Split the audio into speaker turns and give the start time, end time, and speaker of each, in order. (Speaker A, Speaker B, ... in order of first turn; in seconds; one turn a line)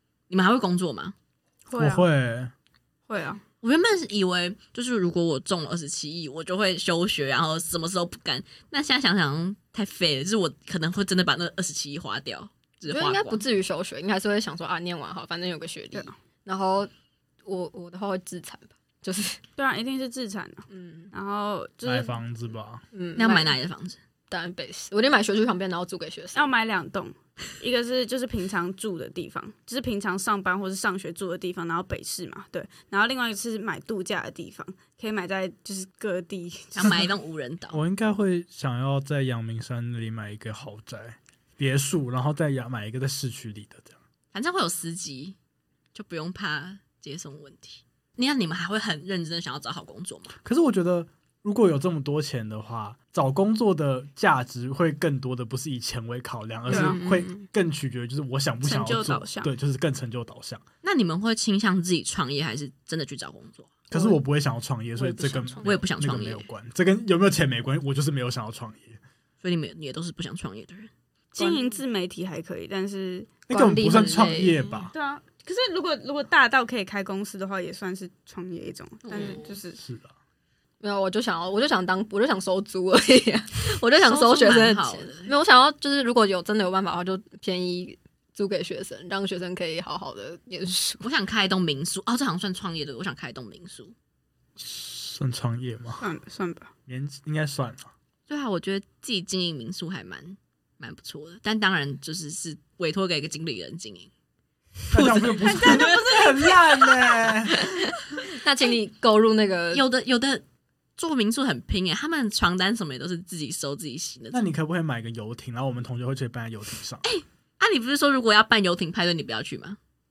Speaker A: 0.3-1.1
Speaker B: 1.7-2.0
Speaker C: 1.8-2.5
Speaker B: 3.1-3.4
Speaker A: 3.6-13.4
Speaker D: 12.9-16.9
Speaker D: 17.4-19.4
Speaker B: 19.6-22.2
Speaker D: 20.7-21.1
Speaker C: 21.9-22.8
Speaker D: 22.9-23.6
Speaker A: 23.1-24.0
Speaker D: 24.3-26.5
Speaker B: 26.4-36.9
Speaker A: 36.8-37.8
Speaker C: 37.7-44.0
Speaker A: 44.3-45.4
Speaker A: 45.9-50.4
Speaker C: 50.4-60.6
Speaker B: 56.7-57.0
Speaker A: 56.7-57.3
Speaker D: 56.7-57.4
Speaker B: 58.6-59.5
Speaker A: 60.8-63.7
Speaker C: 63.9-69.0
Speaker D: 65.0-65.8
Speaker A: 65.6-66.5
Speaker A: 69.4-70.9
Speaker B: 71.3-73.4
Speaker D: 71.4-71.7
Speaker C: 73.5-74.9
Speaker D: 73.5-74.6
Speaker B: 74.9-79.8
Speaker A: 79.1-79.5
Speaker C: 79.8-80.1
Speaker D: 80.8-91.1
Speaker A: 84.0-85.3
Speaker A: 91.0-93.9
Speaker C: 94.6-96.0
Speaker B: 96.0-96.7
Speaker C: 96.9-97.9
Speaker A: 98.3-104.1
Speaker A: 104.9-106.6
Speaker C: 104.9-107.7
Speaker B: 105.7-106.0
Speaker D: 108.3-109.8
Speaker A: 109.7-110.4
Speaker A: 111.0-114.4
Speaker C: 114.3-117.0
Speaker A: 117.0-119.8